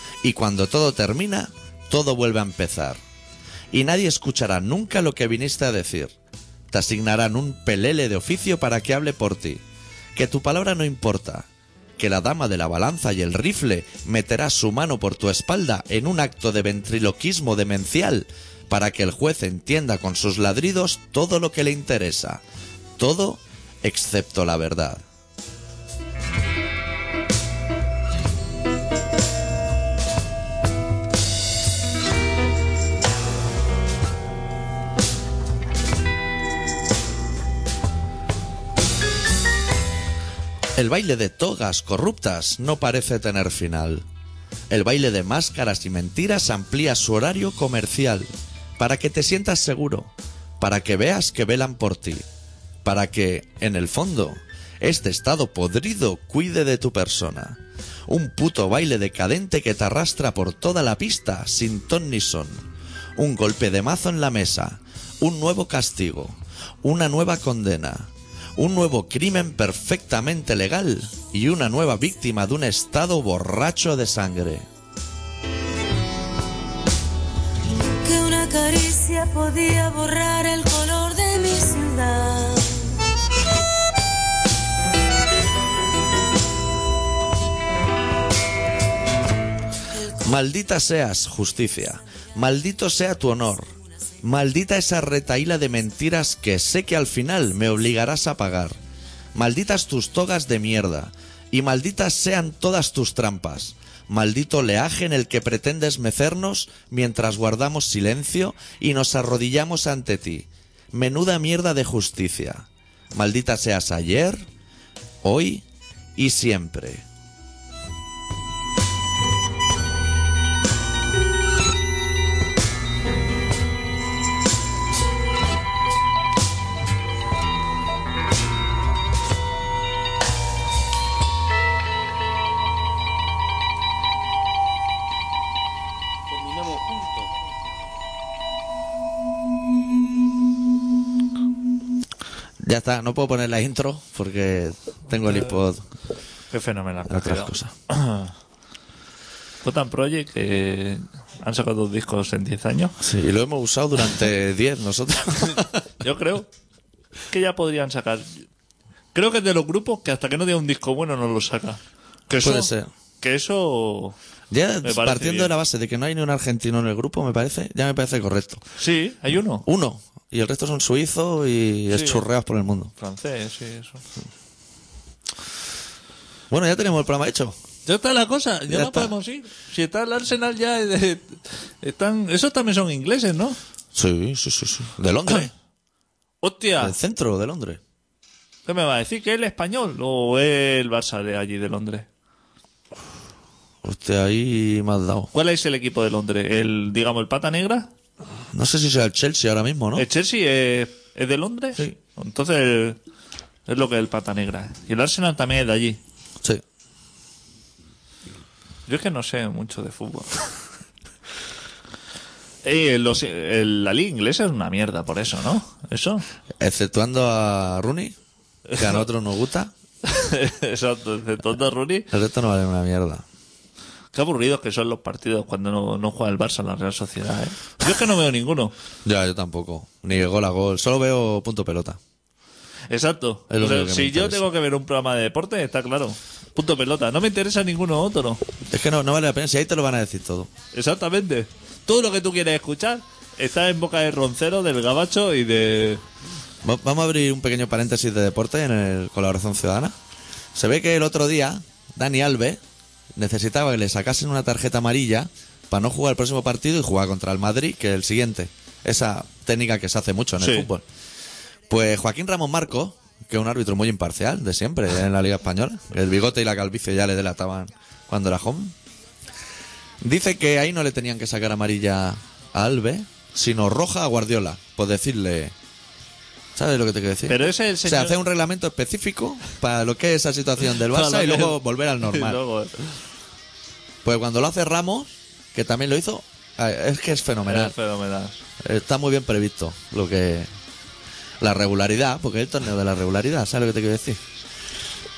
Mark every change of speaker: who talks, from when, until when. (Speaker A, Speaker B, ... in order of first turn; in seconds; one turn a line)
Speaker A: 0.2-3.0
Speaker A: 3.7-6.1
Speaker A: 6.7-9.6
Speaker A: 10.1-11.5
Speaker A: 12.0-22.4
Speaker A: 23.0-25.0
Speaker A: 40.7-44.0
Speaker A: 44.7-52.2
Speaker A: 52.8-62.6
Speaker A: 63.1-74.7
Speaker B: 78.0-83.0
Speaker A: 90.2-93.7
Speaker A: 94.2-98.8
Speaker A: 99.3-114.5
Speaker A: 115.2-115.6
Speaker A: 116.2-117.0
Speaker A: 142.6-145.8
Speaker C: 145.3-145.5
Speaker C: 146.5-148.3
Speaker A: 147.0-147.7
Speaker C: 149.6-153.0
Speaker A: 153.0-155.8
Speaker C: 156.0-156.5
Speaker C: 157.3-158.4
Speaker C: 159.1-164.2
Speaker A: 162.4-162.9
Speaker A: 164.5-168.6
Speaker C: 164.8-165.5
Speaker C: 168.8-169.7
Speaker A: 169.6-172.9
Speaker C: 171.9-172.2
Speaker C: 173.0-174.0
Speaker A: 176.5-177.6
Speaker C: 177.8-183.6
Speaker A: 178.7-179.1
Speaker A: 183.9-185.5
Speaker C: 186.4-186.9
Speaker A: 186.8-187.8
Speaker C: 188.7-192.1
Speaker A: 193.8-195.3
Speaker C: 195.3-197.9
Speaker A: 198.5-200.1
Speaker C: 199.9-203.0
Speaker C: 203.7-206.0
Speaker C: 208.9-210.4
Speaker C: 212.6-216.2
Speaker A: 216.6-218.1
Speaker A: 218.7-219.7
Speaker C: 220.0-222.1
Speaker A: 222.1-223.2
Speaker C: 224.1-228.7
Speaker A: 229.0-232.0
Speaker C: 232.9-238.4
Speaker A: 233.5-234.4
Speaker A: 238.7-240.5
Speaker C: 240.7-246.0
Speaker A: 246.6-249.9
Speaker A: 250.5-252.6
Speaker A: 253.1-260.8
Speaker C: 260.4-260.7
Speaker A: 261.7-268.7
Speaker A: 270.0-275.5
Speaker A: 276.5-282.4
Speaker C: 277.3-278.2
Speaker C: 280.9-283.0
Speaker A: 284.0-287.7
Speaker C: 287.4-288.4
Speaker A: 288.6-290.5
Speaker A: 291.4-294.2